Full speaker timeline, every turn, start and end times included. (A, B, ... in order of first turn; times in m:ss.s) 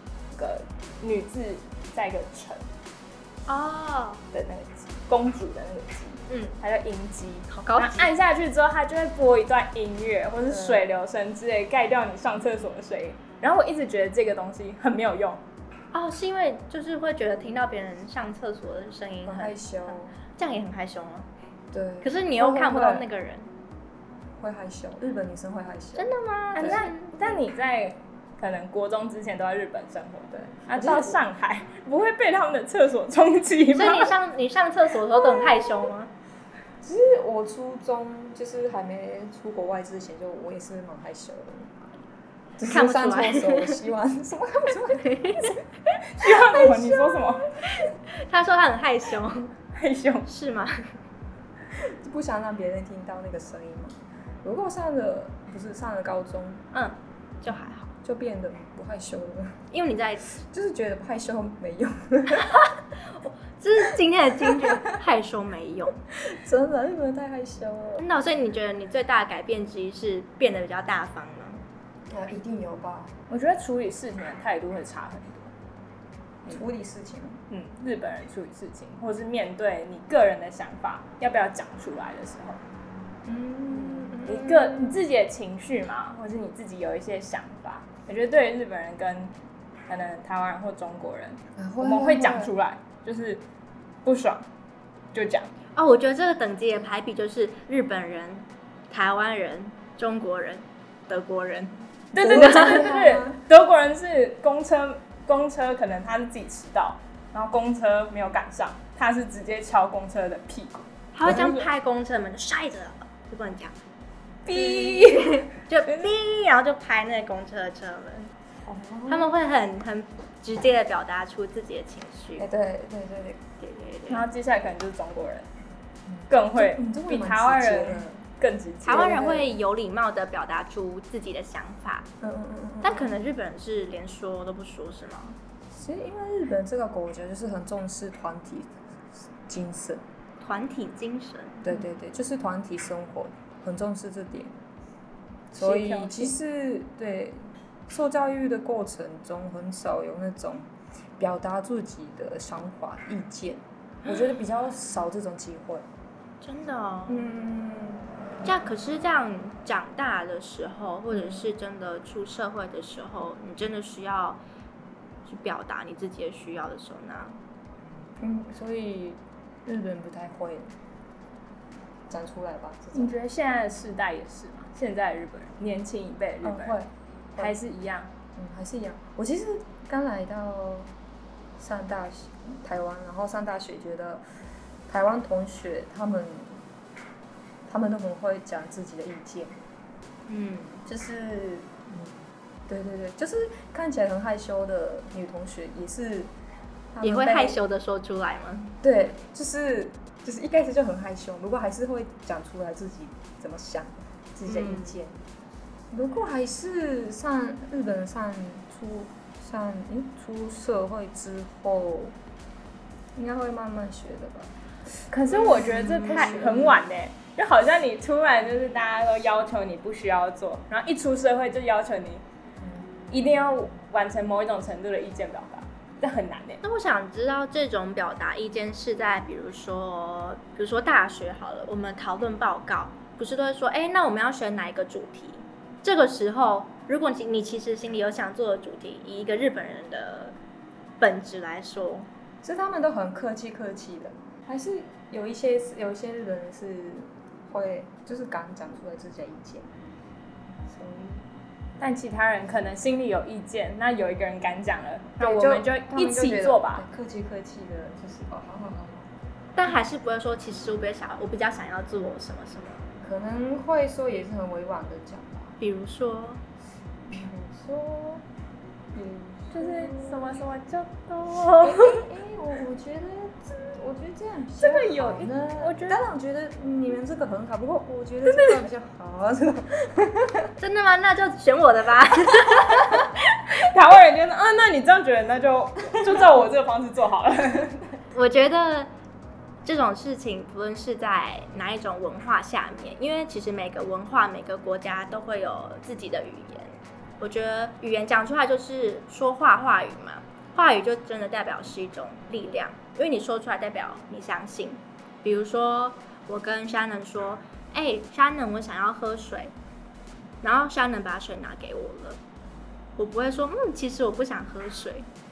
0:00.3-0:02.6 A
0:03.5-0:04.2 B
0:04.3-0:15.4 A
0:06.3-0:06.6 B
0:07.5-0:08.1 B
0:10.5-0:10.8 C
0:15.9-0:21.3 B
0:19.2-0:20.1 C
0:21.7-0:23.0 C
0:22.0-0:23.5 B
0:24.4-0:26.8 C
0:26.0-0:27.3 B
0:26.5-0:34.1 A
0:30.6-0:31.2 C
0:33.7-0:36.1 B
0:36.8-0:41.8 C
0:42.6-0:45.6 C
0:42.6-0:43.8 B
0:44.9-0:45.6 B
0:46.0-0:47.5 A
0:46.2-0:47.9 C
0:47.7-0:49.5 B
0:49.7-0:50.3 A
0:50.3-0:50.9 B
0:51.7-0:56.6 C
0:56.7-0:57.9 B
0:58.0-0:59.6 C
0:59.7-1:00.2 B
1:00.3-1:02.7 C
1:02.4-1:06.0 B
1:04.4-1:04.8 C
1:06.1-1:08.0 C
1:08.0-1:11.6 B
1:12.1-1:13.1 C
1:13.3-1:15.5 A
1:16.5-1:17.4 C
1:17.5-1:22.6 A
1:23.2-1:25.0 C
1:24.2-1:29.3 A
1:29.9-1:33.4 A
1:31.6-1:32.5 C
1:34.0-1:34.4 A
1:35.1-1:35.5 A
1:35.7-1:42.8 B
1:42.1-1:51.7 A
1:42.1-1:43.4 C
1:51.1-1:53.7 B
1:54.4-1:55.5 A
1:54.5-1:58.3 B
1:58.6-1:59.3 C
1:59.1-2:02.5 B
2:02.4-2:03.4 C
2:03.6-2:04.2 B
2:04.1-2:05.5 A
2:06.1-2:08.2 C
2:06.3-2:09.2 A
2:08.8-2:12.1 B
2:08.9-2:09.5 C
2:12.2-2:13.1 C
2:12.8-2:15.4 B
2:15.7-2:20.0 C
2:20.4-2:21.6 B
2:21.6-2:24.6 C
2:25.5-2:35.8 C
2:25.6-2:26.3 A
2:36.4-2:37.3 B
2:37.1-2:38.1 C
2:38.4-2:44.4 B
2:41.1-2:41.5 C
2:45.2-2:47.4 B
2:48.2-2:50.7 C
2:52.1-2:53.1 C
2:52.9-2:56.8 A
2:56.4-2:57.5 C
2:57.4-2:58.1 A
2:58.4-3:00.9 C
3:01.6-3:04.2 C
3:04.9-3:06.6 C
3:07.6-3:09.6 C
3:10.3-3:10.8 B
3:10.8-3:12.1 C
3:12.7-3:16.3 C
3:16.9-3:17.6 C
3:17.0-3:18.7 B
3:18.8-3:25.2 C
3:24.4-3:25.0 B
3:25.9-3:32.2 C
3:33.1-3:34.5 C
3:35.1-3:42.2 A
3:35.3-3:36.8 C
3:35.8-3:36.4 B
3:43.1-3:46.6 A
3:46.6-4:00.4 B
4:01.0-4:02.1 B
4:02.4-4:09.7 C
4:10.7-4:11.2 C
4:11.8-4:16.8 A
4:15.2-4:19.1 C
4:19.6-4:22.8 B
4:23.0-4:25.6 C
4:25.6-4:26.4 B
4:27.1-4:28.2 C
4:28.9-4:30.4 C
4:29.5-4:32.0 A
4:31.6-4:40.5 C
4:34.6-4:36.0 A
4:38.3-4:38.6 A
4:40.6-4:43.1 B
4:43.5-4:47.9 A
4:48.1-4:48.9 B
4:49.6-5:09.5 B
5:10.4-5:12.2 B
5:13.0-5:15.1 B